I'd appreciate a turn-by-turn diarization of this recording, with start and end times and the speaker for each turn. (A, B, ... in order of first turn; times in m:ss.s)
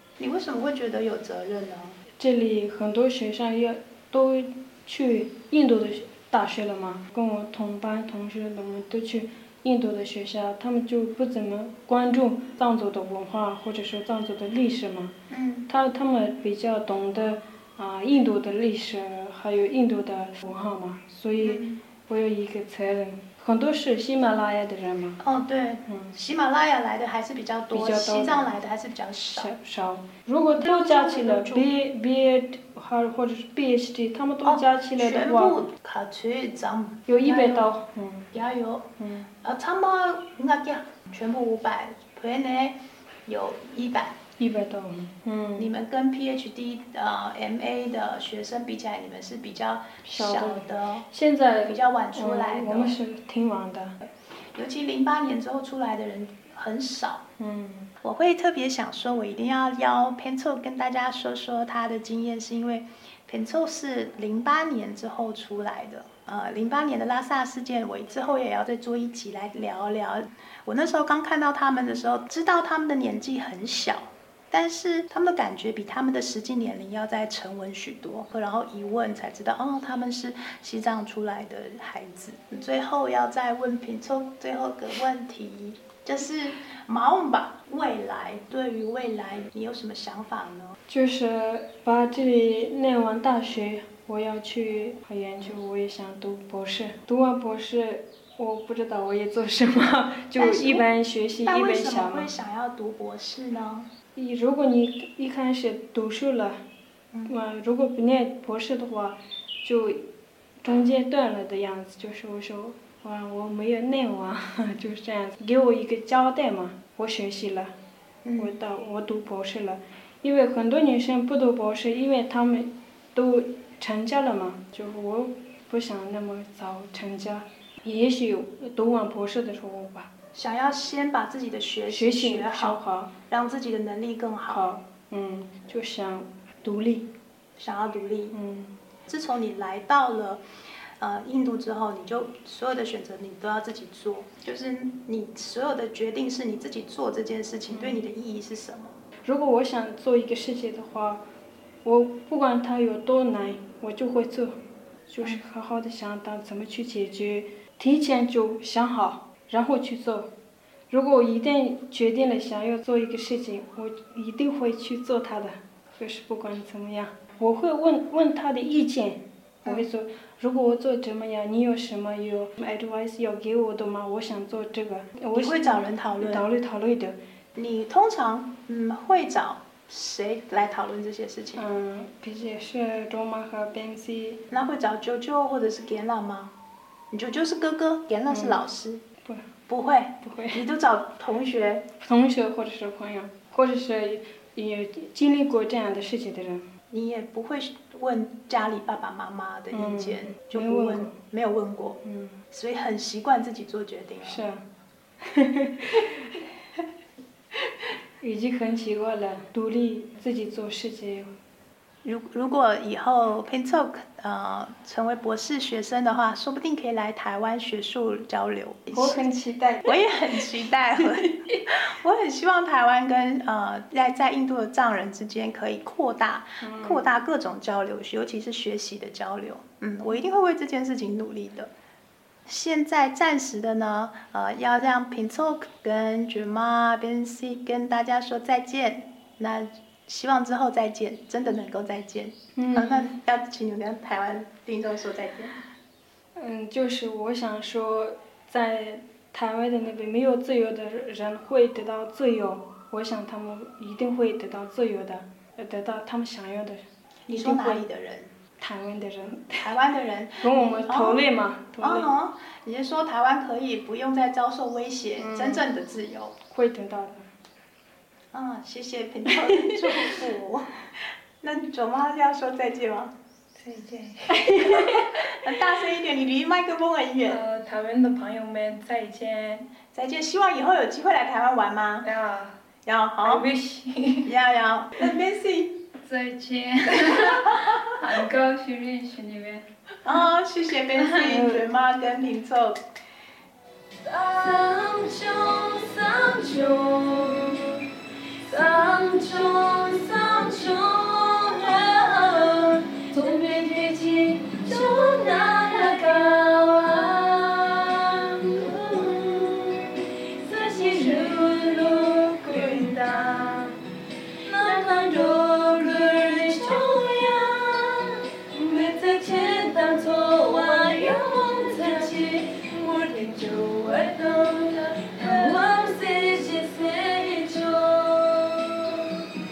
0:00.2-0:02.0 A
0:02.2-0:15.1 B
0:15.3-0:15.7 A
0:15.7-0:25.2 B
0:21.4-0:21.8 A
0:25.2-0:29.5 A
0:25.9-0:26.1 B
0:27.7-0:28.4 B
0:29.3-0:35.6 B
0:30.6-0:31.7 A
0:34.4-0:37.7 A
0:37.1-0:38.3 B
0:38.3-0:38.9 A
0:39.0-0:39.3 B
0:39.4-0:44.2 A
0:44.4-0:45.7 B
0:45.6-0:51.0 A
0:50.0-0:54.0 B
0:51.6-0:53.0 A
0:54.5-0:57.2 A
0:57.4-0:57.9 B
0:58.0-1:30.7 A
1:30.9-1:42.3 B
1:40.4-1:40.8 A
1:41.4-1:43.9 A
1:44.2-1:46.6 B
1:47.1-1:47.4 A
1:47.3-1:50.0 B
1:50.6-1:57.7 B
1:58.2-1:58.5 A
1:58.4-2:10.1 B
2:10.3-2:14.6 A
2:11.9-2:13.1 B
2:14.5-2:17.1 B
2:17.6-2:18.4 A
2:18.3-2:18.7 B
2:19.1-2:20.4 A
2:21.0-2:28.9 A
2:27.7-2:28.0 B
2:29.2-2:31.2 B
2:31.8-2:34.6 B
2:35.1-2:40.3 B
2:40.9-2:57.2 B
2:55.3-2:56.5 A
2:57.6-3:01.6 A
3:01.6-3:04.4 B
3:04.5-3:06.5 A
3:07.1-3:09.0 A
3:08.3-3:08.6 B
3:09.7-3:11.8 A
3:10.2-3:10.6 B
3:12.0-3:16.7 B
3:16.9-3:22.0 A
3:19.7-3:21.1 B
3:22.0-3:22.4 B
3:22.5-3:24.4 A
3:24.2-3:24.6 B
3:25.2-3:26.3 B
3:28.2-3:31.3 B
3:32.0-3:39.2 A
3:38.9-3:40.4 B
3:39.8-3:51.7 A
3:41.0-3:41.3 B
3:46.6-3:47.1 B
3:52.4-4:05.5 A
4:02.6-4:03.2 B
4:06.4-4:17.8 B
4:17.3-4:18.3 A
4:18.6-4:19.7 B
4:19.6-4:21.2 A
4:20.4-4:22.1 B
4:21.8-4:26.4 A
4:25.2-4:25.6 B
4:26.5-4:27.3 B
4:28.3-4:30.7 A
4:29.3-4:30.2 B
4:31.4-4:33.1 A
4:33.6-4:34.4 C
4:33.7-4:35.2 B
4:34.6-4:37.4 A
4:37.4-4:39.6 B
4:39.9-4:42.1 A
4:42.0-4:42.5 C
4:42.8-4:43.4 A
4:43.2-4:44.3 C
4:44.2-4:45.8 A
4:46.0-4:48.5 C
4:48.4-4:49.6 B
4:50.0-4:52.8 A
4:51.0-4:51.3 C
4:51.2-4:51.6 B
4:54.0-4:57.8 B
4:58.4-5:09.8 B
4:58.6-4:59.3 C
5:01.6-5:02.0 C
5:03.2-5:03.5 C
5:04.7-5:06.0 C
5:10.4-5:13.6 B
5:10.7-5:11.4 C
5:12.5-5:13.5 A
5:12.6-5:13.0 C
5:14.4-5:28.8 B
5:14.6-5:15.1 C
5:20.8-5:22.3 C
5:23.9-5:25.8 C